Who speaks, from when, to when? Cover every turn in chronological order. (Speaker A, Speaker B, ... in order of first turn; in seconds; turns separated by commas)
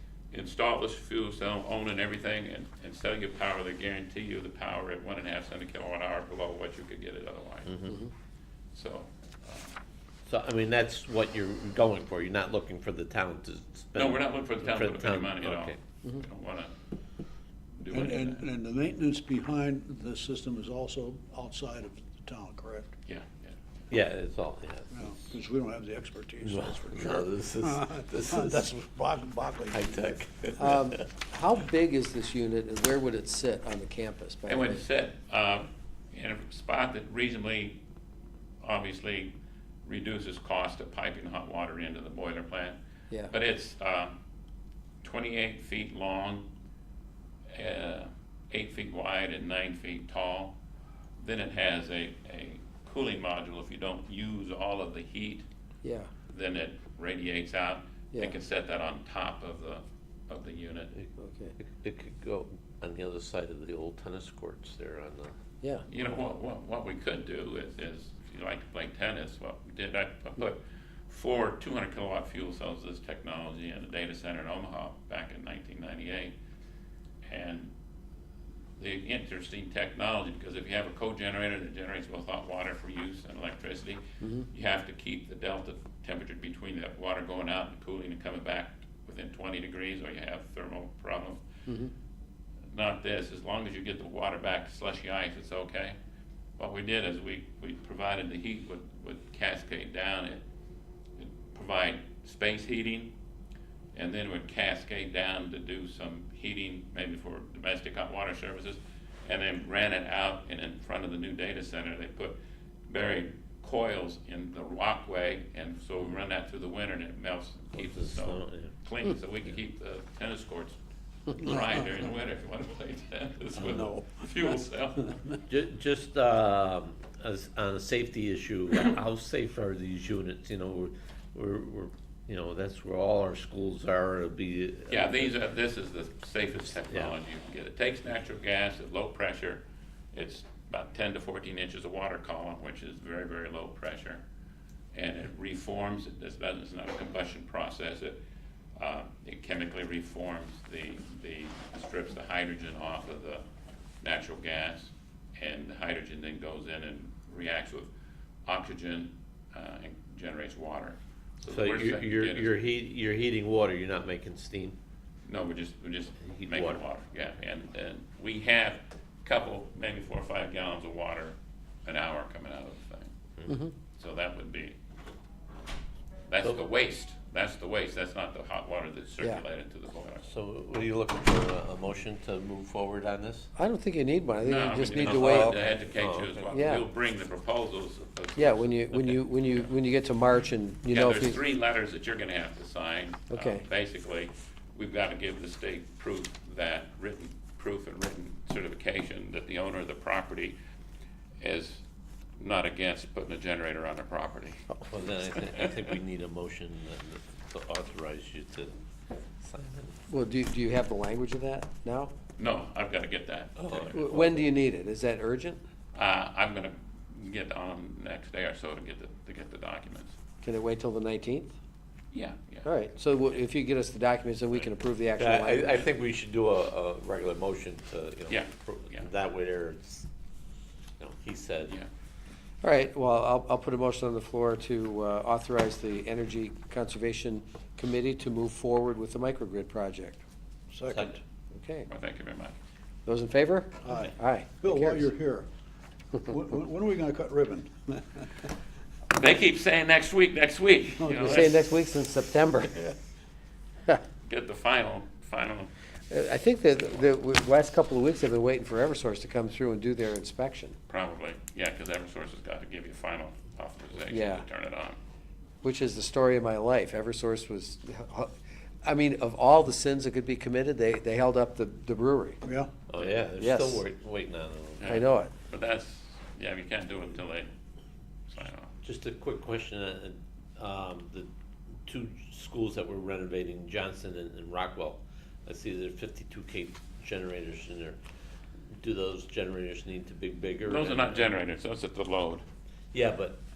Speaker A: 0.3-7.8, Speaker B: 7.7-8.0, Speaker A: 8.7-9.8, Speaker B: 10.3-15.8, Speaker A: 13.9-16.7, Speaker A: 17.8-18.4, Speaker C: 17.9-22.9, Speaker A: 23.1-23.6, Speaker B: 23.9-24.9, Speaker C: 24.9-30.2, Speaker B: 26.4-28.7, Speaker B: 29.7-31.1, Speaker D: 30.6-34.8, Speaker A: 34.5-37.8, Speaker A: 38.6-42.8, Speaker A: 43.3-44.2, Speaker A: 45.0-46.5, Speaker A: 47.5-50.5, Speaker A: 51.2-55.5, Speaker D: 55.8-56.1, Speaker A: 56.3-60.9, Speaker D: 61.2-61.5, Speaker B: 61.6-65.4, Speaker A: 65.9-76.3, Speaker A: 77.2-77.7, Speaker A: 78.8-91.4, Speaker D: 84.2-84.5, Speaker D: 91.7-91.9, Speaker A: 92.7-96.0, Speaker A: 96.6-100.4, Speaker A: 101.2-103.1, Speaker A: 103.9-112.4, Speaker A: 112.9-125.2, Speaker B: 117.8-118.7, Speaker C: 123.6-125.4, Speaker B: 125.5-135.3, Speaker A: 134.9-144.2, Speaker B: 136.8-137.2, Speaker A: 144.9-148.2, Speaker A: 148.8-153.4, Speaker A: 154.0-157.9, Speaker A: 158.5-162.5, Speaker B: 161.5-164.8, Speaker A: 165.3-173.2, Speaker B: 166.4-166.8, Speaker A: 174.0-174.8, Speaker A: 176.3-180.3, Speaker B: 180.2-183.5, Speaker D: 183.6-185.6, Speaker A: 184.4-189.2, Speaker B: 184.9-186.5, Speaker D: 186.5-186.8, Speaker D: 188.4-191.4, Speaker A: 190.9-200.6, Speaker D: 193.3-193.7, Speaker A: 201.4-201.8, Speaker A: 202.4-204.7, Speaker B: 204.9-208.8, Speaker B: 209.4-210.0, Speaker D: 210.1-212.1, Speaker A: 212.4-214.0, Speaker B: 213.6-214.4, Speaker D: 213.9-215.6, Speaker A: 215.9-220.2, Speaker D: 220.4-221.6, Speaker A: 222.1-222.7, Speaker D: 222.7-225.9, Speaker B: 225.2-230.1, Speaker A: 228.3-229.1, Speaker B: 231.0-231.8, Speaker D: 232.6-240.2, Speaker C: 240.7-241.2, Speaker B: 240.9-241.2, Speaker D: 241.5-241.9, Speaker A: 241.9-242.6, Speaker D: 243.1-245.1, Speaker C: 243.8-245.5, Speaker C: 246.2-248.4, Speaker A: 249.1-251.6, Speaker C: 251.0-251.5, Speaker D: 251.2-252.9, Speaker A: 254.2-255.7, Speaker D: 256.1-260.8, Speaker A: 260.9-265.0, Speaker D: 264.1-264.4, Speaker D: 265.6-268.3, Speaker D: 268.8-272.4, Speaker C: 272.4-272.7, Speaker B: 272.9-275.0, Speaker D: 273.4-273.8, Speaker A: 274.8-277.5, Speaker D: 274.9-275.3, Speaker A: 278.3-278.7, Speaker B: 278.8-281.3, Speaker B: 281.9-288.0, Speaker B: 288.8-291.3, Speaker A: 290.6-292.4, Speaker B: 292.9-293.4